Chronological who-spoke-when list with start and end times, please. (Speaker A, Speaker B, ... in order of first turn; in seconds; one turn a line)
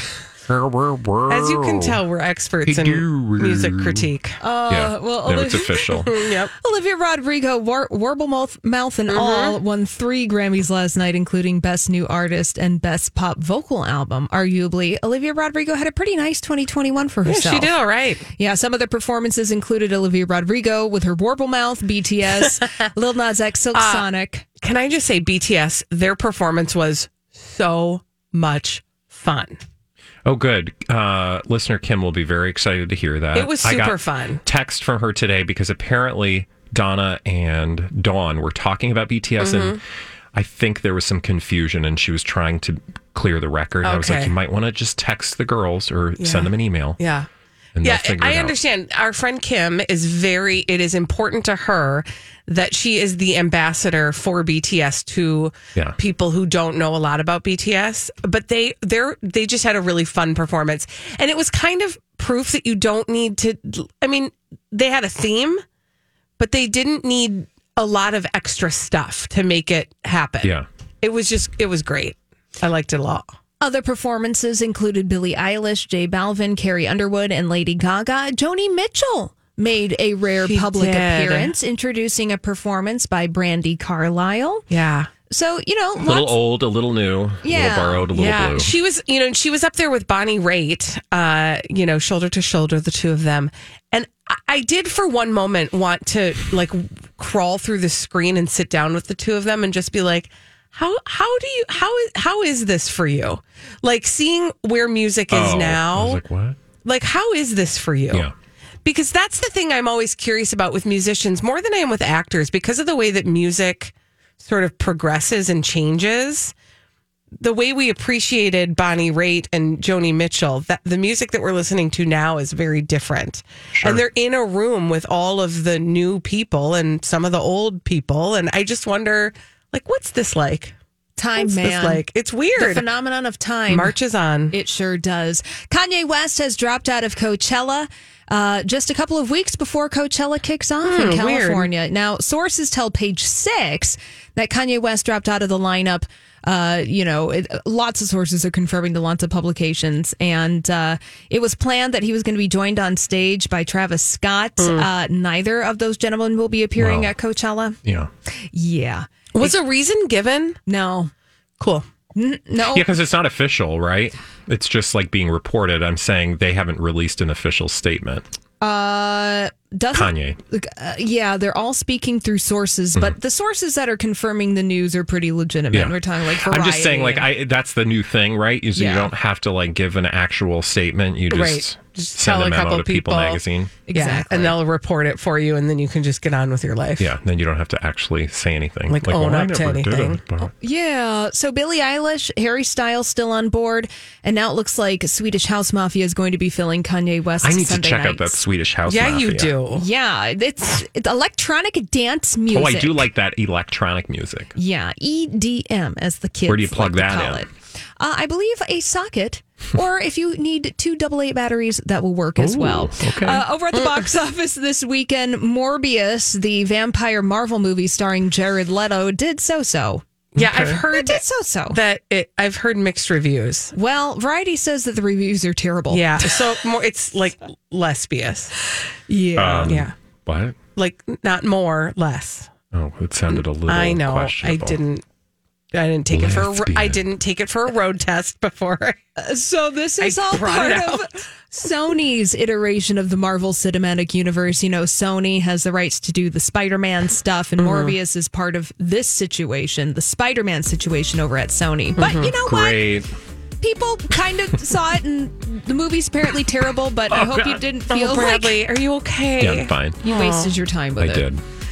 Speaker A: 0.5-2.0
Speaker B: 1.3-4.4
Speaker A: 2.6-4.1
Speaker C: 4.4-6.0
Speaker A: 4.7-6.1
Speaker B: 6.0-6.5
Speaker C: 6.6-17.7
Speaker B: 9.1-9.6
Speaker B: 17.2-18.2
Speaker C: 18.4-24.4
Speaker B: 23.7-24.1
Speaker B: 24.6-29.6
Speaker A: 30.2-39.8
Speaker B: 33.3-34.4
Speaker B: 39.4-39.8
Speaker A: 40.3-47.0
Speaker B: 43.8-44.3
Speaker B: 46.2-47.3
Speaker A: 47.8-48.5
Speaker B: 47.8-65.6
Speaker B: 66.4-73.3
Speaker C: 73.6-84.7
Speaker B: 80.4-81.5
Speaker B: 84.7-85.1
Speaker C: 85.3-86.3
Speaker A: 86.0-88.7
Speaker C: 87.4-88.1
Speaker B: 88.1-106.2
Speaker A: 105.3-106.6
Speaker B: 106.8-108.3
Speaker B: 108.8-116.5
Speaker B: 117.4-130.7
Speaker A: 123.7-124.0
Speaker C: 131.2-132.0
Speaker B: 131.4-132.8
Speaker C: 132.6-133.9
Speaker B: 133.7-134.5
Speaker C: 134.5-157.8
Speaker B: 140.8-141.7
Speaker B: 154.6-154.9
Speaker A: 156.8-157.1
Speaker A: 157.8-158.1
Speaker C: 158.5-159.5
Speaker B: 159.3-160.6
Speaker C: 160.7-161.1
Speaker B: 161.6-161.8
Speaker C: 162.1-162.9
Speaker A: 162.7-168.3
Speaker C: 168.6-177.3
Speaker A: 169.9-170.4
Speaker A: 175.7-183.8
Speaker C: 178.7-179.1
Speaker B: 181.3-187.1
Speaker C: 183.9-184.6
Speaker A: 187.0-190.5
Speaker B: 188.9-190.2
Speaker C: 190.4-198.4
Speaker A: 197.4-199.6
Speaker B: 198.9-199.8
Speaker C: 199.7-203.0
Speaker A: 202.5-204.5
Speaker C: 204.6-220.0
Speaker A: 206.5-207.4
Speaker A: 212.4-213.4
Speaker A: 220.3-220.8
Speaker B: 220.3-223.7
Speaker C: 220.9-221.8
Speaker C: 223.7-226.3
Speaker B: 225.9-228.5
Speaker C: 229.1-229.8
Speaker A: 229.3-230.6
Speaker B: 229.7-229.9
Speaker B: 230.8-232.5
Speaker A: 232.7-234.8
Speaker B: 233.3-235.0
Speaker B: 235.7-239.0
Speaker A: 236.1-237.0
Speaker C: 239.2-252.9
Speaker B: 240.0-241.2
Speaker B: 247.6-247.9
Speaker B: 252.0-252.3
Speaker A: 252.4-253.1
Speaker C: 253.6-258.6
Speaker A: 257.1-257.6
Speaker B: 257.9-260.5
Speaker A: 259.4-260.0
Speaker C: 260.0-261.2
Speaker A: 261.0-261.4